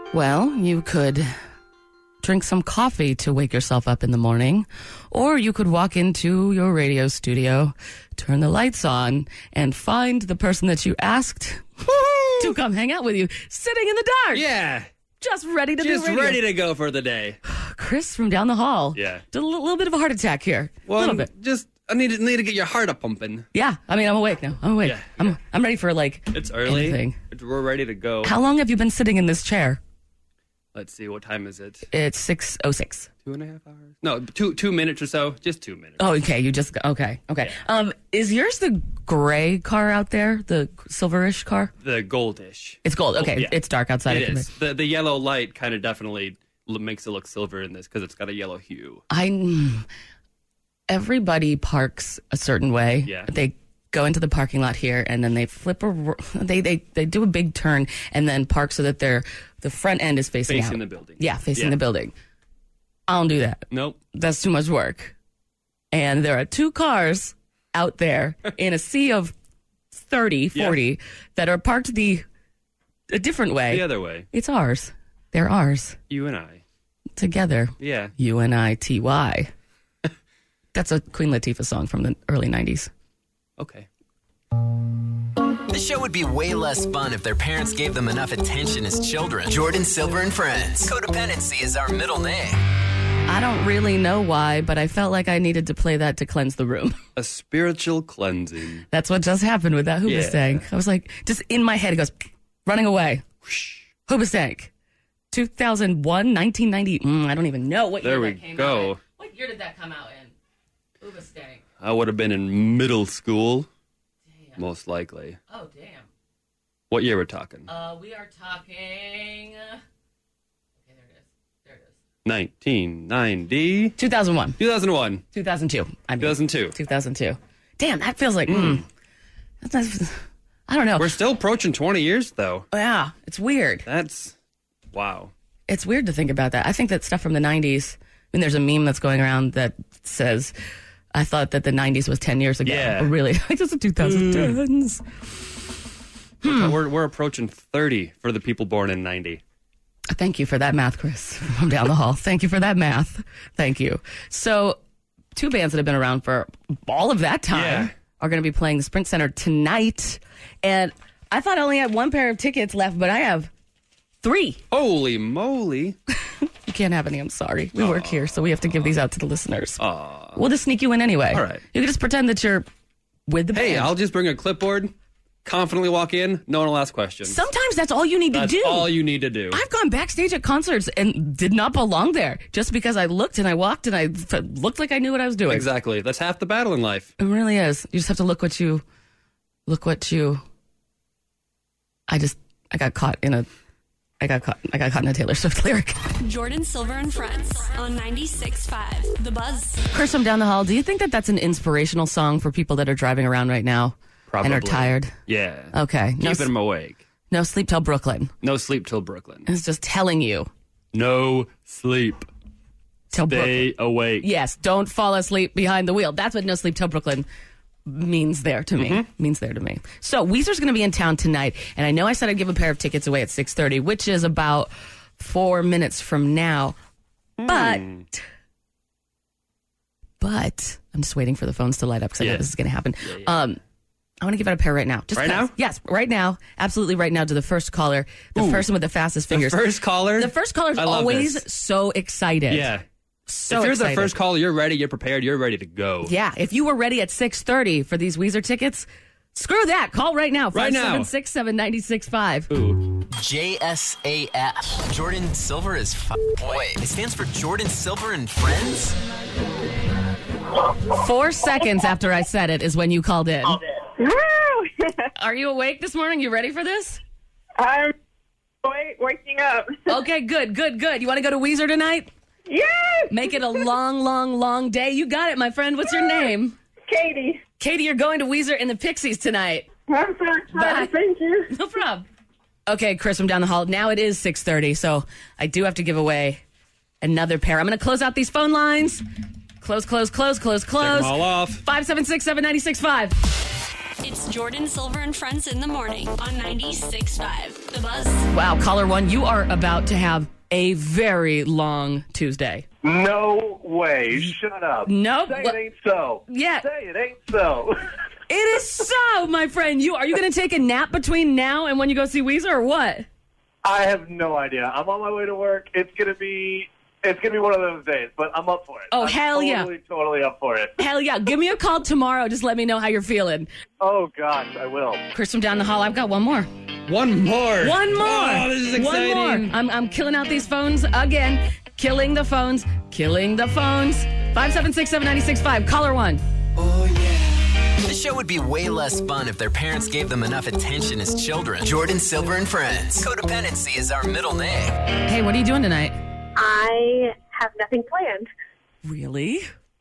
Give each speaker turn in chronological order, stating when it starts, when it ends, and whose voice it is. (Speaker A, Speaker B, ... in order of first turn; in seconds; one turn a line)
Speaker A: 0.1-1.3
Speaker A: 2.2-11.7
Speaker B: 11.9-12.5
Speaker A: 12.4-14.4
Speaker B: 14.3-14.9
Speaker A: 15.2-16.4
Speaker B: 15.8-17.4
Speaker A: 17.5-21.3
Speaker B: 18.9-19.2
Speaker B: 20.9-23.5
Speaker A: 23.5-27.2
Speaker B: 24.8-25.4
Speaker B: 26.3-28.3
Speaker A: 28.2-29.8
Speaker B: 30.7-31.9
Speaker A: 31.9-33.1
Speaker B: 33.2-36.0
Speaker A: 36.0-41.7
Speaker B: 41.8-49.0
Speaker A: 42.9-44.5
Speaker A: 49.1-49.9
Speaker A: 50.9-62.1
Speaker B: 60.5-61.8
Speaker A: 63.1-65.1
Speaker B: 63.7-64.0
Speaker A: 65.9-69.3
Speaker A: 69.9-72.2
Speaker A: 73.1-76.0
Speaker B: 73.7-74.3
Speaker B: 76.1-76.6
Speaker A: 77.2-79.5
Speaker B: 77.8-78.1
Speaker A: 80.7-82.9
Speaker B: 83.6-83.9
Speaker C: 85.7-92.6
Speaker A: 93.3-97.0
Speaker B: 97.2-98.9
Speaker A: 98.9-102.1
Speaker B: 100.1-100.7
Speaker A: 102.7-103.2
Speaker B: 103.5-103.8
Speaker A: 104.1-104.7
Speaker A: 105.3-110.3
Speaker B: 108.0-109.0
Speaker A: 111.0-111.6
Speaker B: 111.8-113.7
Speaker A: 114.3-114.6
Speaker B: 114.6-115.4
Speaker A: 115.5-116.0
Speaker B: 116.9-117.7
Speaker A: 117.7-119.8
Speaker A: 120.8-121.9
Speaker B: 122.2-124.0
Speaker A: 124.0-124.6
Speaker B: 124.6-125.2
Speaker A: 125.3-128.8
Speaker B: 126.2-126.8
Speaker B: 128.5-128.8
Speaker A: 129.6-131.1
Speaker B: 131.0-132.7
Speaker A: 132.7-133.8
Speaker B: 133.9-134.3
Speaker B: 134.9-135.3
Speaker A: 135.7-140.5
Speaker A: 141.1-145.0
Speaker B: 142.7-143.1
Speaker B: 144.0-144.6
Speaker A: 146.4-146.7
Speaker B: 146.4-149.4
Speaker A: 150.1-154.8
Speaker A: 155.3-163.5
Speaker B: 157.5-157.9
Speaker A: 164.2-164.6
Speaker B: 164.7-166.0
Speaker A: 166.7-169.8
Speaker B: 167.8-168.9
Speaker B: 169.8-170.4
Speaker A: 170.4-172.7
Speaker B: 171.3-171.6
Speaker A: 173.3-173.9
Speaker B: 173.5-174.9
Speaker B: 175.4-177.4
Speaker A: 177.3-178.9
Speaker B: 178.3-179.6
Speaker A: 179.5-185.7
Speaker B: 185.5-187.1
Speaker A: 187.2-188.8
Speaker A: 189.7-190.4
Speaker A: 192.1-193.5
Speaker A: 194.2-196.0
Speaker D: 196.2-199.8
Speaker A: 199.9-205.1
Speaker B: 204.3-207.0
Speaker A: 205.7-206.5
Speaker A: 207.3-208.3
Speaker B: 208.4-209.5
Speaker A: 209.5-210.5
Speaker B: 210.9-212.3
Speaker A: 213.1-217.3
Speaker B: 213.2-214.3
Speaker A: 217.9-226.8
Speaker B: 218.8-219.1
Speaker B: 227.4-228.1
Speaker A: 227.5-227.8
Speaker A: 230.2-233.6
Speaker B: 232.2-232.5
Speaker B: 233.0-233.3
Speaker A: 234.2-239.6
Speaker B: 235.2-235.5
Speaker B: 238.4-238.7
Speaker B: 239.3-241.4
Speaker A: 240.2-242.7
Speaker B: 242.5-242.8
Speaker A: 243.3-244.2
Speaker B: 243.5-246.1
Speaker A: 246.1-252.5
Speaker B: 250.5-251.1
Speaker B: 252.5-252.9
Speaker C: 253.2-259.0
Speaker A: 260.9-263.6
Speaker E: 263.9-264.9
Speaker A: 265.2-267.0
Speaker E: 267.6-267.9
Speaker E: 268.6-269.8
Speaker A: 269.9-272.1
Speaker E: 272.5-273.1
Speaker A: 273.1-276.6
Speaker E: 276.9-277.4
Speaker A: 277.6-279.7
Speaker E: 279.9-281.4
Speaker A: 280.5-280.9
Speaker A: 281.5-282.1
Speaker A: 282.7-286.4
Speaker A: 287.0-289.0
Speaker A: 289.6-293.2
Speaker B: 290.8-291.6
Speaker D: 294.0-298.3
Speaker A: 298.3-302.6
Speaker F: 302.8-307.8
Speaker A: 304.9-305.6
Speaker A: 306.3-306.7
Speaker A: 308.3-313.1
Speaker F: 313.6-320.8
Speaker A: 318.9-319.7
Speaker A: 320.8-323.5
Speaker F: 323.8-325.0
Speaker A: 325.1-326.5
Speaker B: 326.9-329.5
Speaker A: 327.6-336.2
Speaker B: 336.6-337.3
Speaker C: 337.8-344.8
Speaker A: 345.1-346.0
Speaker E: 346.4-348.3
Speaker A: 348.8-349.5